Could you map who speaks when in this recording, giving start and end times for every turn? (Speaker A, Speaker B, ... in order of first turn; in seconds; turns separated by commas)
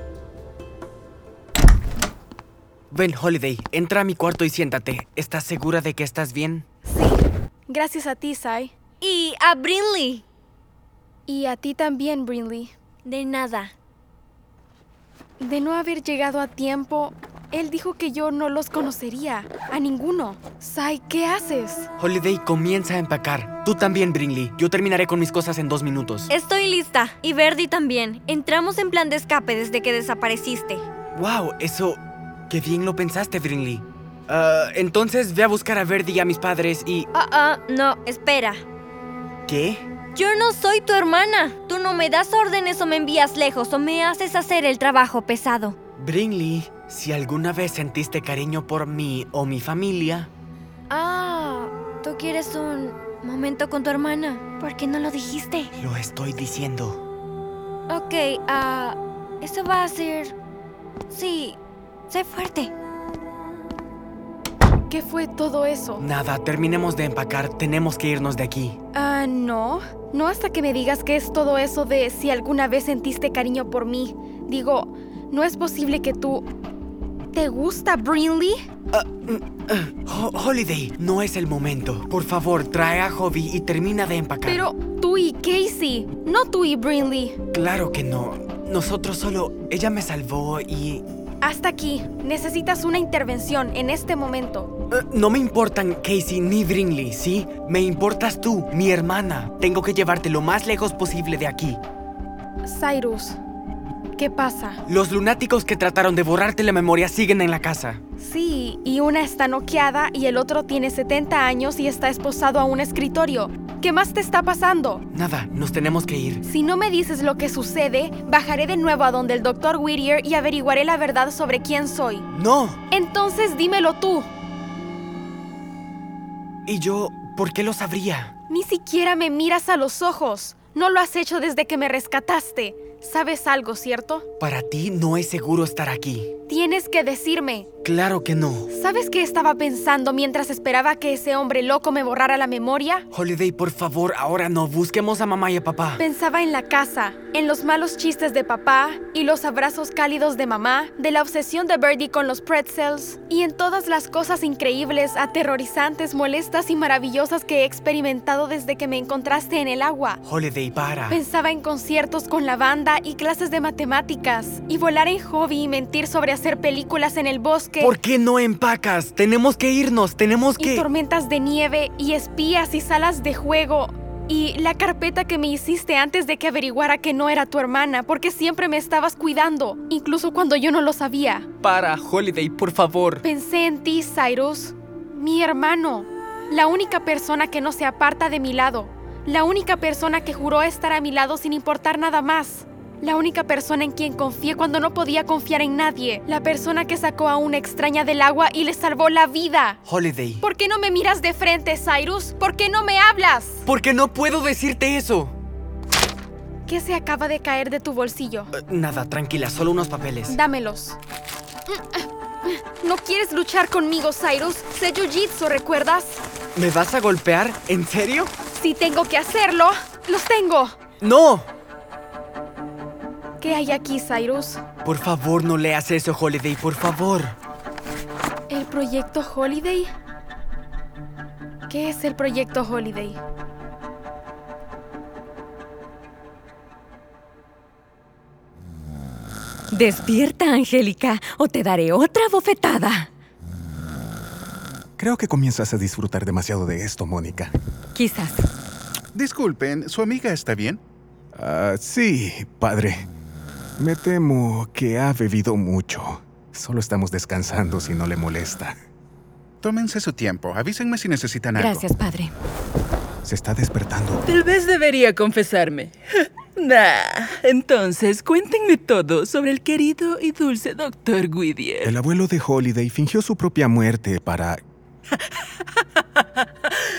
Speaker A: 2.9-6.7, Speaker B: 6.8-8.7, Speaker C: 9.0-10.2, Speaker B: 11.3-12.7, Speaker C: 13.0-13.7, Speaker B: 15.4-21.9, Speaker A: 22.0-26.3, Speaker C: 26.3-30.8, Speaker A: 31.1-37.1, Speaker C: 37.1-38.6, Speaker A: 39.5-39.9, Speaker C: 40.1-45.8, Speaker A: 46.0-50.3, Speaker C: 50.9-55.7, Speaker A: 55.8-57.0, Speaker C: 57.9-60.4, Speaker C: 61.1-61.6, Speaker C: 62.1-62.7, Speaker B: 64.9-66.0, Speaker A: 66.0-68.8, Speaker B: 68.9-76.5, Speaker B: 77.3-78.5, Speaker A: 78.9-84.6, Speaker B: 84.4-87.3, Speaker A: 87.5-91.0, Speaker B: 91.4-94.7, Speaker A: 94.9-101.8, Speaker B: 102.6-103.4, Speaker B: 104.2-104.8, Speaker A: 104.9-108.0, Speaker B: 108.2-115.0, Speaker A: 115.1-116.4, Speaker B: 116.4-122.2, Speaker A: 122.3-122.8, Speaker B: 122.9-124.3, Speaker A: 126.7-128.3, Speaker B: 128.5-134.2, Speaker A: 134.4-136.3, Speaker B: 136.5-137.7, Speaker A: 137.8-138.7, Speaker B: 138.7-143.0, Speaker A: 143.1-146.0, Speaker B: 146.0-160.2, Speaker A: 160.2-161.2, Speaker B: 161.1-167.9, Speaker A: 167.8-170.8, Speaker B: 170.6-181.5, Speaker A: 181.6-183.2, Speaker B: 183.2-199.8, Speaker A: 199.8-200.4, Speaker B: 200.4-203.6, Speaker A: 203.7-205.3, Speaker B: 206.7-208.5, Speaker A: 208.5-210.3, Speaker B: 210.3-211.0, Speaker B: 211.7-216.2, Speaker A: 216.5-218.3, Speaker B: 218.5-220.8, Speaker A: 221.0-221.5, Speaker B: 223.4-224.6, Speaker A: 224.8-227.3, Speaker B: 228.5-229.8, Speaker B: 231.7-233.2, Speaker D: 239.7-243.1, Speaker E: 245.0-247.5, Speaker D: 247.9-248.5, Speaker F: 249.1-250.8, Speaker E: 251.3-253.0, Speaker E: 253.8-258.7, Speaker F: 259.6-261.8, Speaker D: 261.6-262.3, Speaker E: 263.2-264.2, Speaker G: 264.2-271.9, Speaker E: 271.8-274.6